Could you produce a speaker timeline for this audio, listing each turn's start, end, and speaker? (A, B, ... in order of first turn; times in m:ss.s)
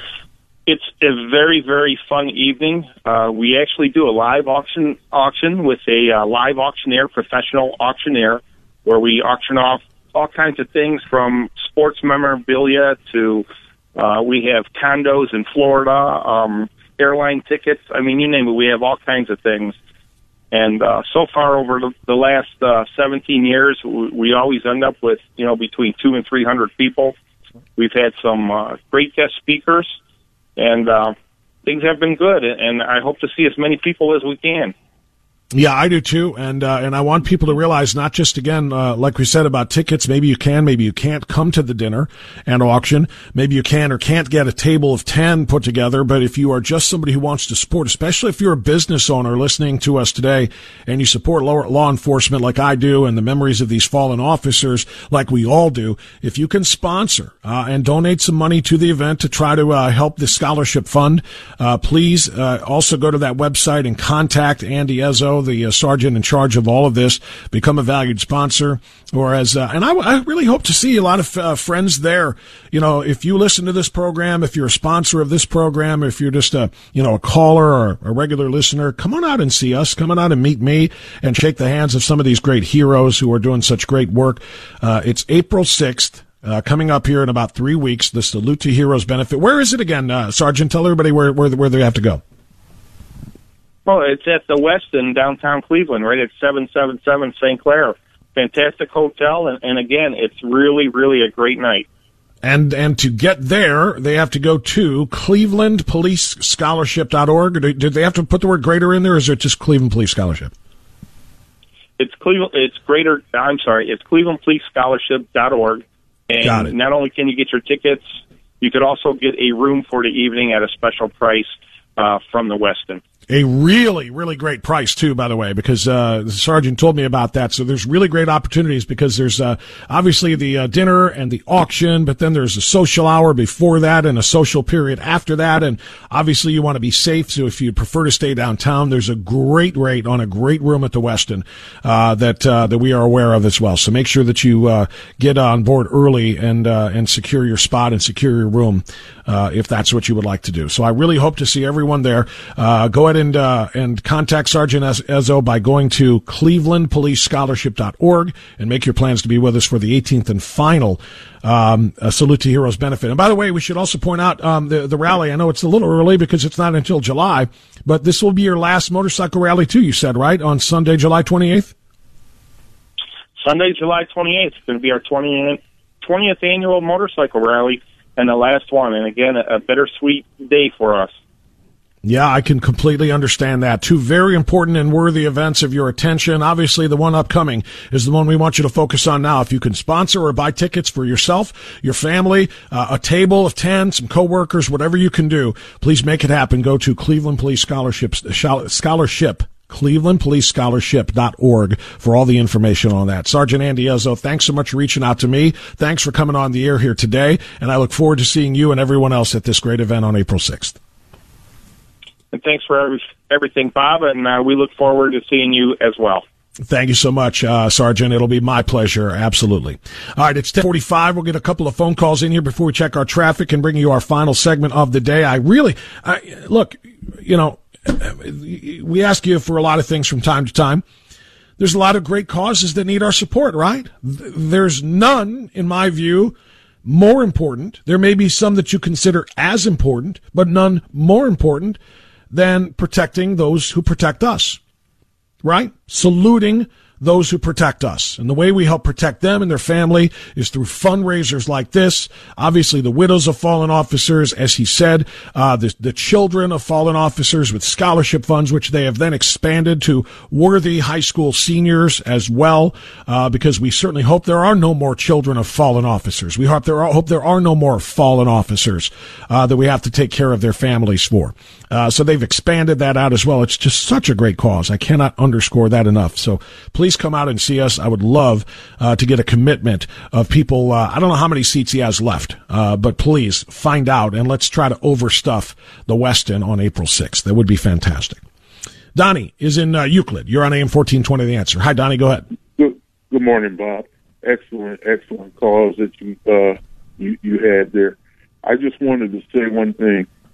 0:00.7-0:19.8 A
0:20.5-0:27.1 A
0:27.8-0:29.9 A
0:30.6-0:34.7 A
0:35.5-1:32.2 B
1:33.9-1:41.9 A
1:42.4-1:50.5 B
1:52.0-1:58.0 A
1:56.4-1:56.7 B
1:58.6-2:03.0 A
2:03.3-2:51.7 B
2:53.4-3:01.1 A
3:02.0-3:30.8 B
3:32.3-3:36.2 A
3:36.7-3:50.8 B
3:51.6-4:01.8 B
4:02.3-4:04.6 B
4:05.4-4:48.2 B
4:49.0-4:52.2 B
4:52.6-5:00.1 C